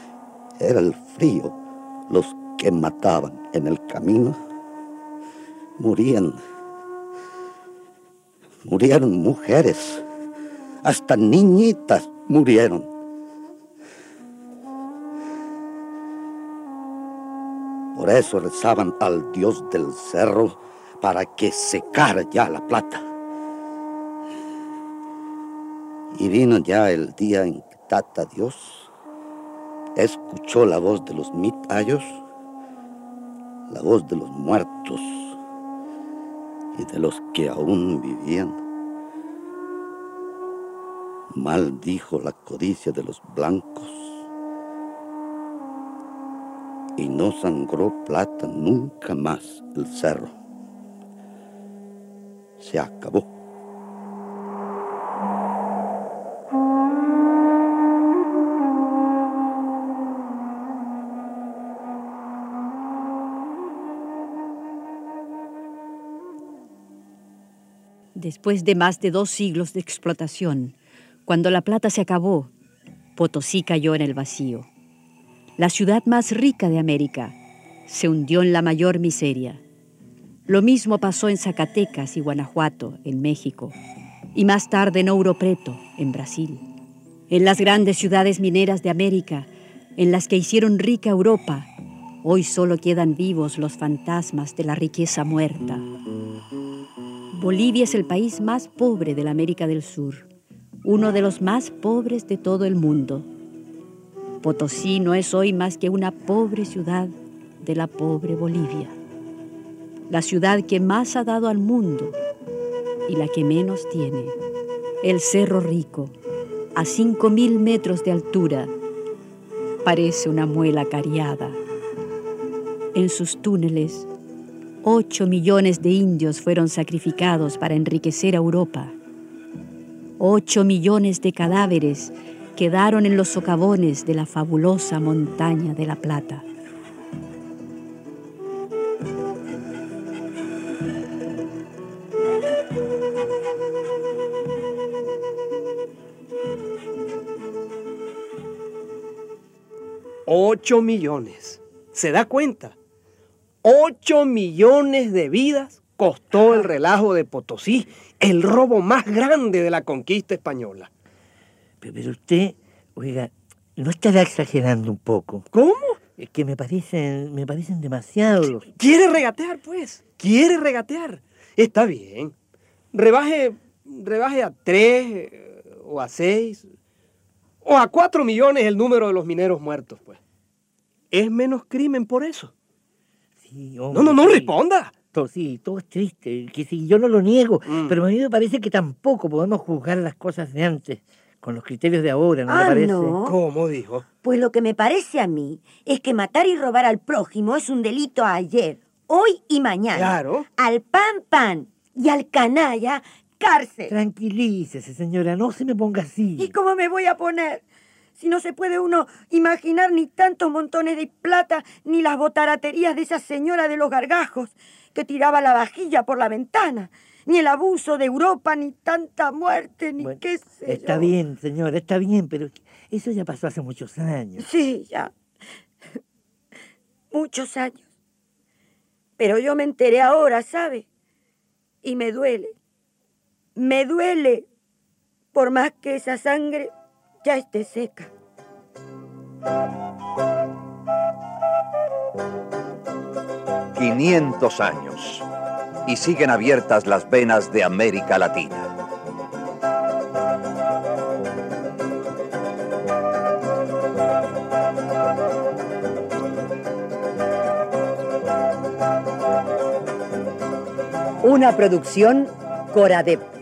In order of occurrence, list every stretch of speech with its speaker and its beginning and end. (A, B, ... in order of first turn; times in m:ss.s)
0:00.6-0:01.6 A
0:02.1-0:04.4 A
0:05.8-0:06.4 A
0:08.6-0:10.0 A
0:10.8-0:12.9 A
0:17.9-0:23.1 A
0:26.1-0:28.9 A
0:30.0-0:32.2 A
0:33.7-0:35.4 A
0:36.7-0:38.6 A
0:41.3-0:44.2 A
0:47.0-0:50.3 A
0:52.6-0:53.3 A
1:08.1-1:10.7 B
1:11.2-1:12.5 B
1:13.2-1:14.7 B
1:15.6-1:19.6 B
1:20.5-1:23.8 B
1:24.3-1:26.6 B
1:27.3-1:31.7 B
1:32.2-1:35.8 B
1:37.3-1:40.2 B
1:40.8-1:43.3 B
1:44.4-1:49.0 B
1:50.1-1:52.2 B
1:53.1-1:54.4 B
1:55.0-1:56.1 B
1:56.7-1:58.7 B
1:59.8-2:01.6 B
2:02.9-2:04.1 B
2:04.8-2:08.9 B
2:10.2-2:16.4 B
2:30.2-2:32.7 C
2:33.6-2:40.9 C
2:41.8-2:45.4 D
2:45.5-2:46.0 C
2:46.2-2:48.6 D
2:48.8-2:52.3 C
2:52.9-2:56.7 C
2:57.6-3:00.2 C
3:01.1-3:02.5 C
3:03.4-3:04.5 D
3:03.9-3:04.9 C
3:05.1-3:13.2 D
3:07.6-3:08.0 C
3:12.5-3:13.3 E
3:13.2-3:14.0 C
3:14.2-3:23.9 E
3:19.9-3:20.5 C
3:23.9-3:26.5 D
3:26.4-3:27.6 E
3:28.2-3:41.1 E
3:40.0-3:44.5 D
3:44.4-3:45.1 E
3:47.1-3:47.8 E
3:49.2-3:50.8 E
3:51.8-3:52.5 E
3:53.6-3:54.5 E
3:55.3-3:56.7 E
3:57.2-3:58.1 E
4:03.7-4:05.2 F
4:05.8-4:08.7 F
4:21.2-4:23.2 G